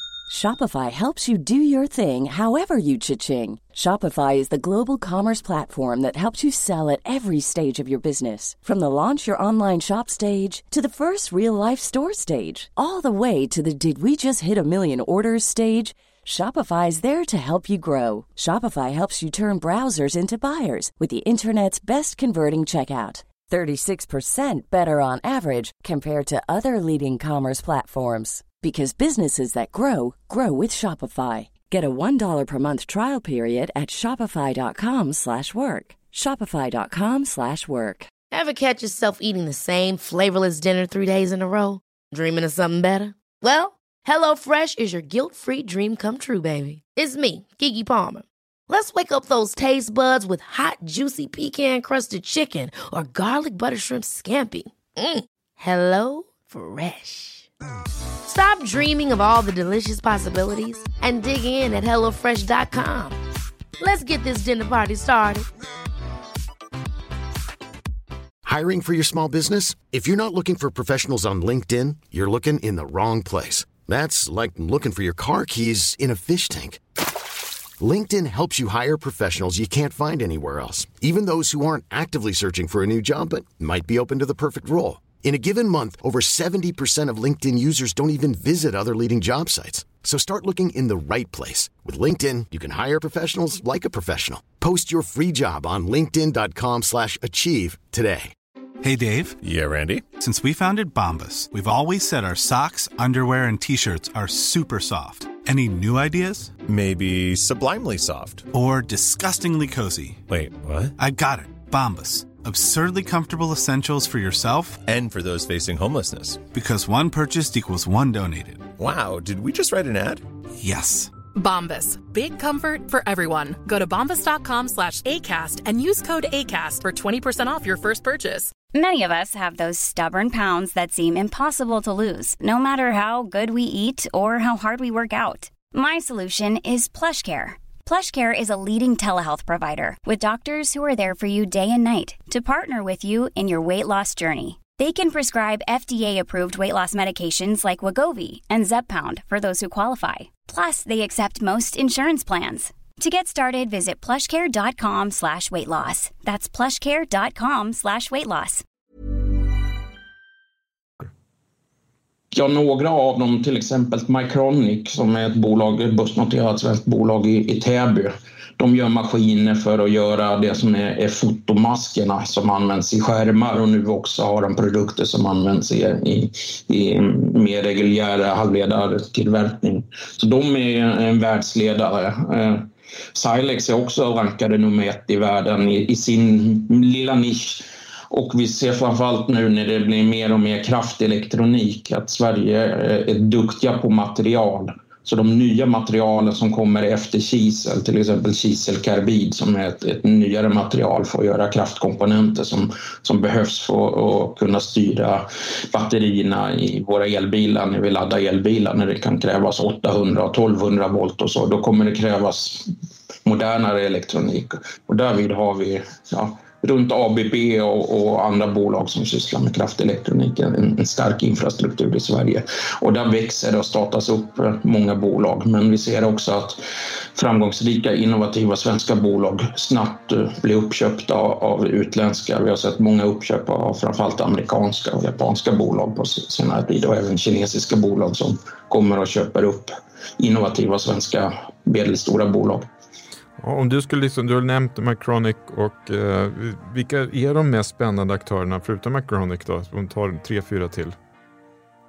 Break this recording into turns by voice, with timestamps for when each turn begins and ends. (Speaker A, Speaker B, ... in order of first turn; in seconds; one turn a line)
Speaker A: 0.3-38.1
Speaker B: 38.3-57.5
Speaker B: 58.2-63.2
Speaker B: 63.8-65.5
Speaker C: 68.4-76.8
Speaker C: 77.8-98.3
Speaker D: 98.8-99.4
Speaker E: 99.4-100.1
Speaker D: 100.1-106.6
Speaker E: 106.6-108.5
Speaker D: 108.5-110.3
Speaker E: 110.3-110.9
Speaker D: 111.0-114.8
Speaker E: 114.8-116.5
Speaker D: 116.5-118.7
Speaker E: 118.7-120.2
Speaker D: 120.6-121.1
Speaker F: 121.3-128.5
Speaker G: 128.7-158.6
Speaker H: 162.3-212.7
Speaker H: 213.2-226.6
Speaker H: 227.1-242.7
Speaker I: 243.4-250.9